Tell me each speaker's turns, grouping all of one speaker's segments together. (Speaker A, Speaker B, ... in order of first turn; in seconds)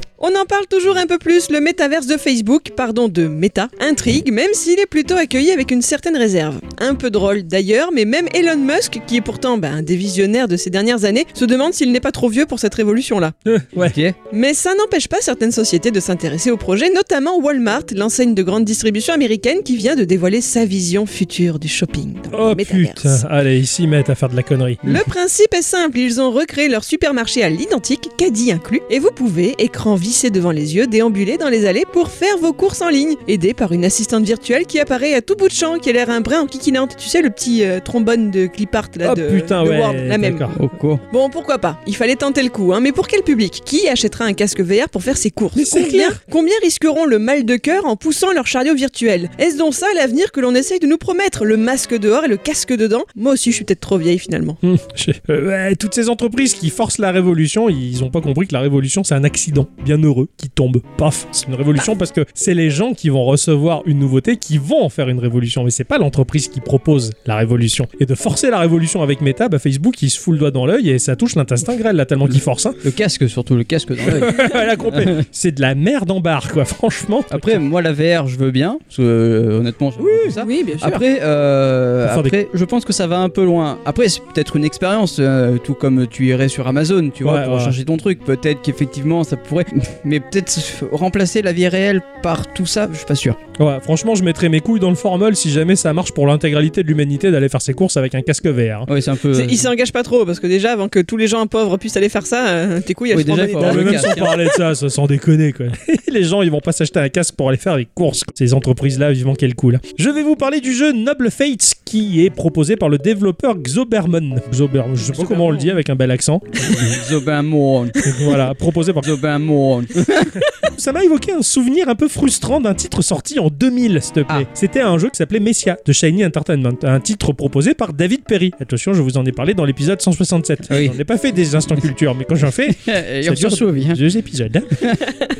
Speaker A: 0.2-13.3, 14.3-23.2, 24.8-40.5, 41.1-54.6, 80.4-81.0, 99.3-104.5, 115.2-115.6
Speaker B: 13.5-13.9, 22.3-24.8, 39.0-40.5, 45.5-46.2, 54.6-72.8, 74.0-77.6, 80.0-80.4, 82.0-82.3, 87.2-87.8, 93.6-98.9, 103.2-116.6, 118.0-119.1, 120.6-134.9
Speaker C: 13.8-14.2, 40.5-41.0, 72.8-75.2, 77.3-93.4, 98.9-99.7, 103.1-104.3, 116.6-118.0, 119.0-120.3, 130.7-131.0, 132.7-134.0